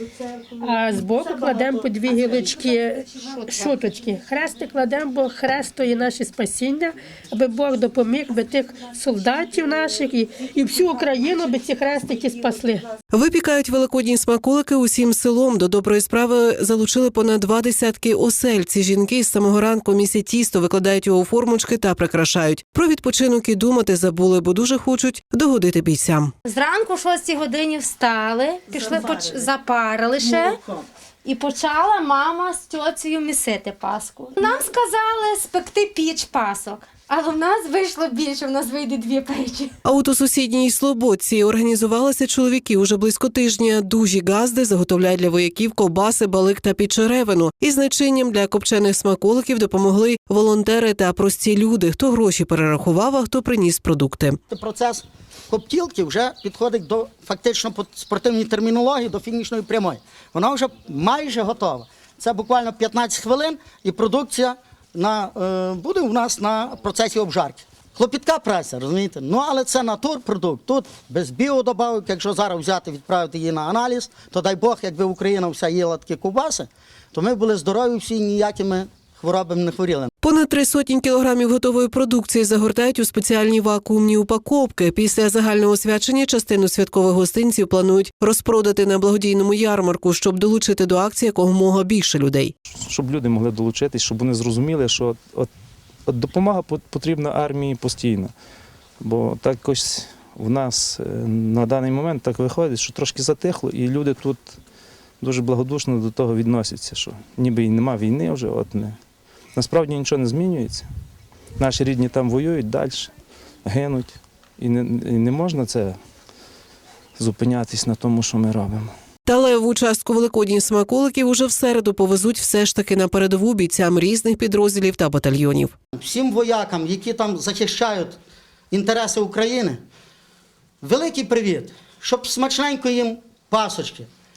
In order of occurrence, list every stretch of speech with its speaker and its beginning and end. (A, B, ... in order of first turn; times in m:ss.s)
0:00.5-0:12.9 A
0:13.1-0:26.3 B
0:26.4-0:30.6 C
0:31.2-0:39.7 C
0:39.8-0:54.4 B
0:54.5-1:20.1 D
1:20.2-1:32.5 B
1:32.8-1:35.5 E
1:36.0-1:38.3 E
1:39.0-1:44.6 E
1:45.2-1:49.0 E
1:49.5-1:50.9 E
1:51.6-1:53.1 E
1:53.6-1:56.0 E
1:57.2-1:58.9 E
1:59.2-2:05.7 B
2:05.9-2:08.2 D
2:08.7-2:09.8 D
2:10.8-2:14.1 D